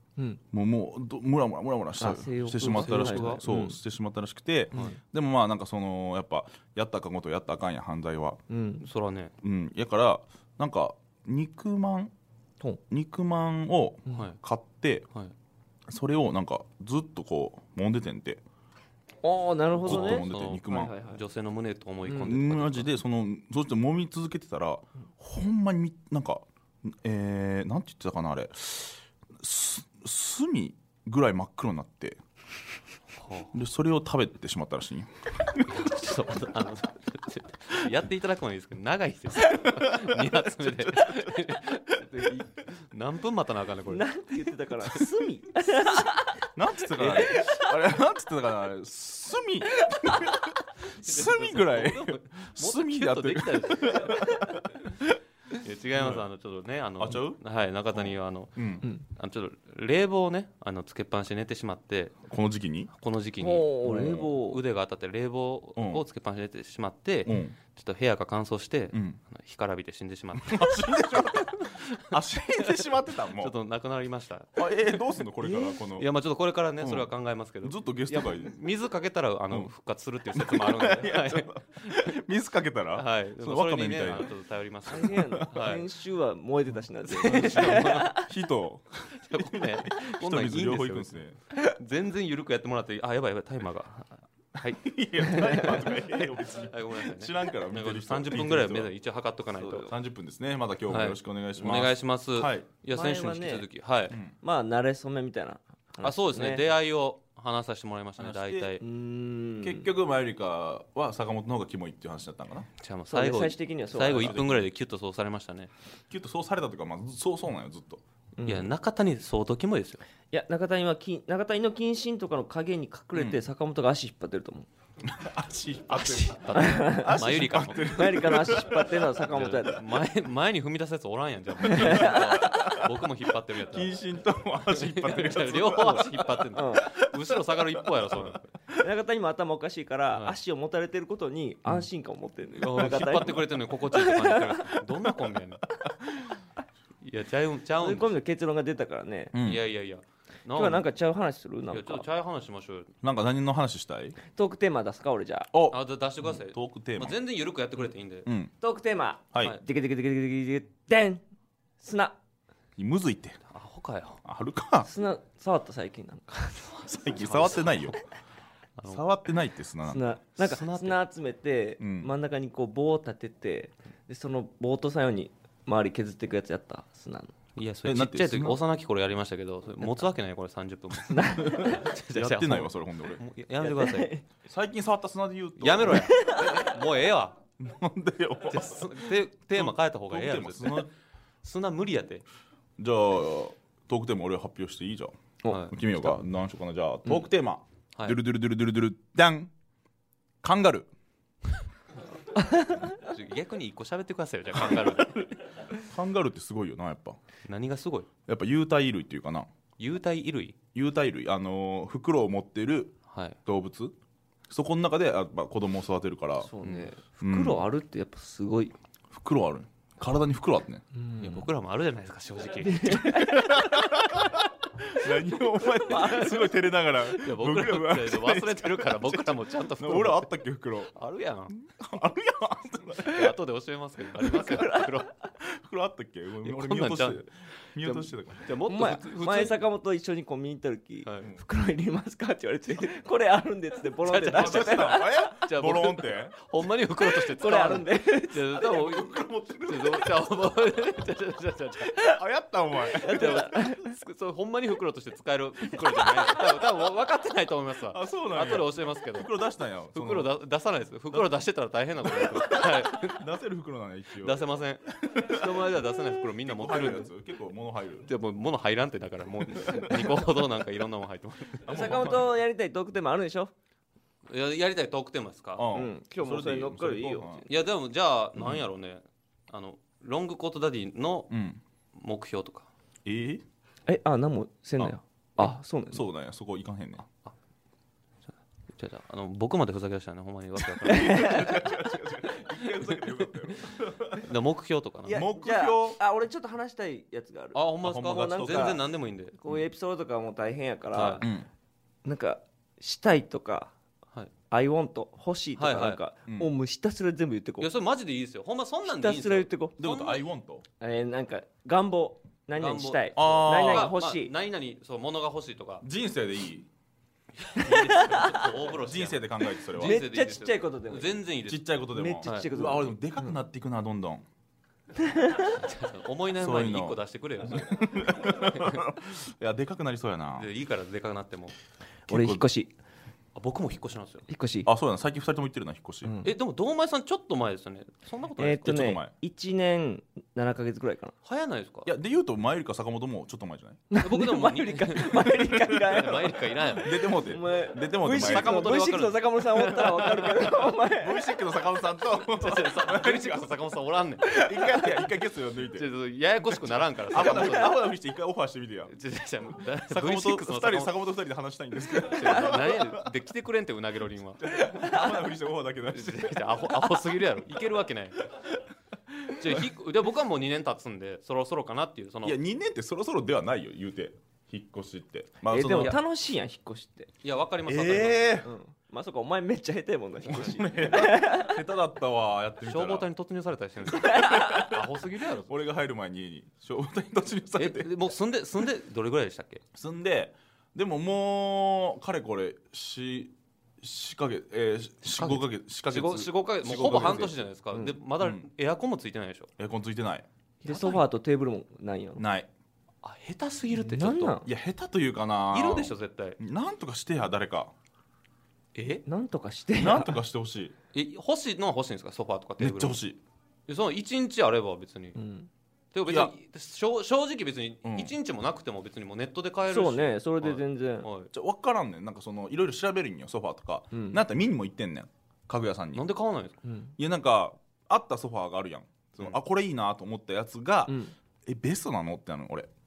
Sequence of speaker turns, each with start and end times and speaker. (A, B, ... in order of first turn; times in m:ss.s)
0:00.5-0:08.4 A
0:02.0-0:03.8 B
0:02.6-0:03.5 C
0:04.7-0:05.0 B
0:08.5-0:08.9 B
0:08.8-0:09.3 C
0:09.4-0:12.1 A
0:12.9-0:15.1 A
0:14.1-0:14.4 C
0:15.9-0:18.4 A
0:19.2-0:21.2 B
0:19.8-0:20.9 A
0:19.8-0:22.9 C
0:22.1-0:32.2 A
0:33.2-0:33.5 C
0:33.5-0:35.8 A
0:35.6-0:44.1 C
0:39.8-0:40.0 A
0:40.6-0:41.3 A
0:43.9-0:46.4 B
0:46.6-0:55.2 A
0:47.0-0:47.4 C
0:47.2-0:47.7 B
0:50.9-0:54.5 C
0:55.6-1:02.2 C
0:56.0-0:56.2 A
0:57.0-0:57.4 A
0:57.9-0:58.9 A
1:02.3-1:02.9 A
1:02.9-1:12.1 C
1:03.4-1:04.6 B
1:03.8-1:04.3 A
1:05.8-1:06.0 A
1:07.3-1:07.6 A
1:08.9-1:09.2 A
1:10.4-1:13.6 A
1:13.4-1:21.6 C
1:14.6-1:16.1 A
1:16.8-1:17.1 A
1:17.6-1:18.5 A
1:20.3-1:24.3 A
1:22.9-1:25.9 C
1:24.9-1:28.3 B
1:25.0-1:25.4 A
1:27.1-1:28.2 C
1:27.2-1:31.4 A
1:29.2-1:39.9 C
1:34.7-1:38.9 A
1:39.6-1:39.9 B
1:39.8-1:42.7 A
1:40.9-1:44.2 C
1:42.9-1:43.7 B
1:44.4-1:46.6 B
1:46.0-1:48.8 C
1:48.2-1:48.7 A
1:48.8-1:49.9 B
1:49.6-1:52.7 A
1:52.8-1:55.7 C
1:53.1-1:54.4 B
1:54.0-1:54.7 A
1:56.1-1:58.0 A
1:58.4-1:58.7 B
1:58.4-2:00.0 C
2:00.3-2:04.7 B
2:05.0-2:09.5 A
2:05.9-2:08.3 C
2:06.6-2:07.2 B
2:07.8-2:09.8 B
2:09.3-2:13.9 C
2:11.6-2:12.9 A
2:11.7-2:12.6 B
2:13.6-2:18.8 A
2:14.7-2:18.5 C
2:16.5-2:16.9 B
2:18.8-2:24.6 B
2:22.6-2:25.6 C
2:22.8-2:23.4 A
2:25.8-2:26.3 A
2:27.0-2:28.2 C
2:27.8-2:29.3 B
2:29.3-2:29.6 A
2:29.4-2:30.8 C
2:30.5-2:32.1 B
2:31.7-2:32.9 C
2:33.0-2:34.2 A
2:34.3-2:35.5 B
2:35.5-2:37.2 A
2:35.7-2:38.3 C
2:38.3-2:38.5 A
2:38.6-2:41.2 B
2:41.8-2:42.2 B
2:42.8-2:43.4 A
2:43.5-2:44.2 C
2:44.2-2:44.9 A
2:44.8-2:46.8 B
2:46.6-2:48.0 C
2:46.9-2:48.0 A
2:48.8-2:49.0 C
2:48.9-2:50.0 A
2:49.8-2:57.3 B
2:50.4-2:51.0 C
2:51.8-2:52.1 A
2:57.6-3:04.1 C
2:57.8-2:58.6 A
3:01.1-3:01.8 B
3:01.4-3:03.2 A
3:03.6-3:04.2 B
3:04.4-3:06.3 A
3:05.6-3:07.4 C
3:06.1-3:06.4 B
3:07.6-3:10.9 A
3:08.5-3:10.9 C
3:11.4-3:12.2 C
3:12.8-3:19.5 A
3:15.5-3:16.2 C
3:20.4-3:20.9 A
3:22.5-3:22.7 B
3:23.0-3:25.2 C
3:25.8-3:27.2 A
3:27.5-3:28.1 C
3:28.3-3:29.5 A
3:29.8-3:30.6 C
3:30.7-3:34.0 A
3:33.1-3:33.4 C
3:34.5-3:36.5 A
3:36.4-3:38.8 B
3:36.6-3:36.9 C
3:37.2-3:37.7 A
3:39.1-3:40.8 A
3:40.9-3:41.5 B
3:41.2-3:43.2 C
3:42.6-3:44.0 B
3:42.9-3:50.9 A
3:45.6-3:46.6 B
3:45.9-3:46.4 C
3:47.0-3:50.3 C
3:50.9-3:51.6 C
3:51.5-3:53.4 A
3:53.0-3:55.1 C
3:54.2-3:55.0 B
3:55.4-3:58.5 A
3:56.4-3:59.6 C
3:58.7-4:05.4 B
4:01.0-4:01.3 C
4:04.0-4:12.0 C
4:04.2-4:06.4 A
4:07.0-4:08.6 B
4:08.6-4:10.2 A
4:12.0-4:13.7 A
4:12.9-4:13.9 B
4:13.0-4:19.3 C
4:16.0-4:16.4 B
4:17.9-4:20.3 A
4:19.9-4:23.2 C
4:22.0-4:28.1 A
4:24.2-4:27.1 C
4:28.0-4:32.2 C
4:29.4-4:30.2 A
4:31.7-4:32.3 A
4:31.7-4:33.5 B
4:34.3-4:35.7 C
4:35.6-4:37.4 A
4:35.7-4:37.5 B
4:37.4-4:41.3 C
4:41.3-4:41.6 A
4:41.9-4:42.7 C
4:43.0-4:43.4 A
4:43.9-4:46.1 B
4:44.8-4:47.0 A
4:48.7-4:51.8 C
4:50.7-4:54.3 A
4:50.9-4:51.5 B
4:52.6-4:53.6 C
4:54.2-4:55.2 C
4:55.1-4:58.8 B
4:55.1-4:56.0 A
4:57.5-4:59.4 C
4:57.8-4:58.8 A
4:59.4-5:01.3 B
5:00.9-5:01.3 C
5:01.2-5:01.5 A
5:02.0-5:03.7 B
5:04.5-5:07.7 B
5:05.6-5:06.0 C
5:06.3-5:06.5 A
5:07.6-5:10.2 C
5:08.8-5:09.8 B
5:09.8-5:10.6 A
5:10.8-5:14.3 B
5:12.6-5:15.8 C
5:13.2-5:14.0 A
5:15.8-5:16.7 A
5:17.4-5:22.5 C
5:17.7-5:18.5 B
5:18.1-5:20.0 A
5:19.7-5:21.2 B
5:21.5-5:24.3 A
5:21.9-5:23.3 B
5:25.0-5:25.5 B
5:25.4-5:28.8 C
5:26.4-5:30.5 A
5:30.4-5:31.6 C
5:32.1-5:32.4 A
5:32.1-5:32.7 B
5:33.4-5:34.3 C
5:34.3-5:34.7 B
5:34.6-5:36.2 A
5:36.0-5:36.3 B
5:36.2-5:38.8 C
5:38.4-5:41.2 B
5:38.6-5:39.1 A
5:41.2-5:41.9 C
5:41.9-5:43.8 A
5:43.9-5:51.3 B
5:44.0-5:47.1 C
5:46.8-5:48.8 A
5:48.0-5:50.4 C
5:49.6-5:53.5 A
5:52.3-5:54.4 C
5:54.2-5:55.9 A
5:55.8-5:57.8 C
5:56.5-5:58.9 A
5:57.1-5:57.7 B
5:58.9-6:01.0 C
5:59.9-6:03.1 A
6:02.1-6:04.5 C
6:04.4-6:06.9 A
6:04.8-6:05.2 B
6:05.9-6:08.3 C
6:09.3-6:09.6 A
6:09.3-6:12.4 C
6:12.2-6:16.0 A
6:15.5-6:17.1 B
6:15.7-6:16.0 C
6:17.2-6:18.4 C
6:17.7-6:18.5 A
6:18.4-6:21.6 B
6:20.2-6:23.1 A
6:22.6-6:25.6 C
6:24.0-6:24.7 B
6:24.0-6:24.8 A
6:25.5-6:27.9 A
6:27.6-6:29.6 C
6:29.7-6:37.4 A
6:35.0-6:39.5 C
6:37.7-6:38.0 B
6:38.2-6:38.5 A
6:39.6-6:40.3 A
6:40.6-6:41.0 C
6:40.6-6:42.2 B
6:42.2-6:42.5 A
6:43.0-6:44.4 C
6:43.8-6:44.5 B
6:44.4-6:47.7 A
6:45.5-6:46.4 C
6:48.8-6:49.0 C
6:49.1-6:50.2 B
6:49.8-6:50.7 A
6:50.9-6:53.0 C
6:52.6-6:53.2 A
6:53.7-6:55.2 C
6:55.2-6:55.5 B
6:55.9-7:01.3 C
6:56.1-6:56.3 A
6:57.8-6:58.1 A
6:59.7-7:01.1 B
7:01.3-7:06.0 A
7:03.9-7:04.2 B
7:05.9-7:06.6 C
7:06.6-7:06.9 B
7:07.0-7:12.7 A
7:10.9-7:11.1 B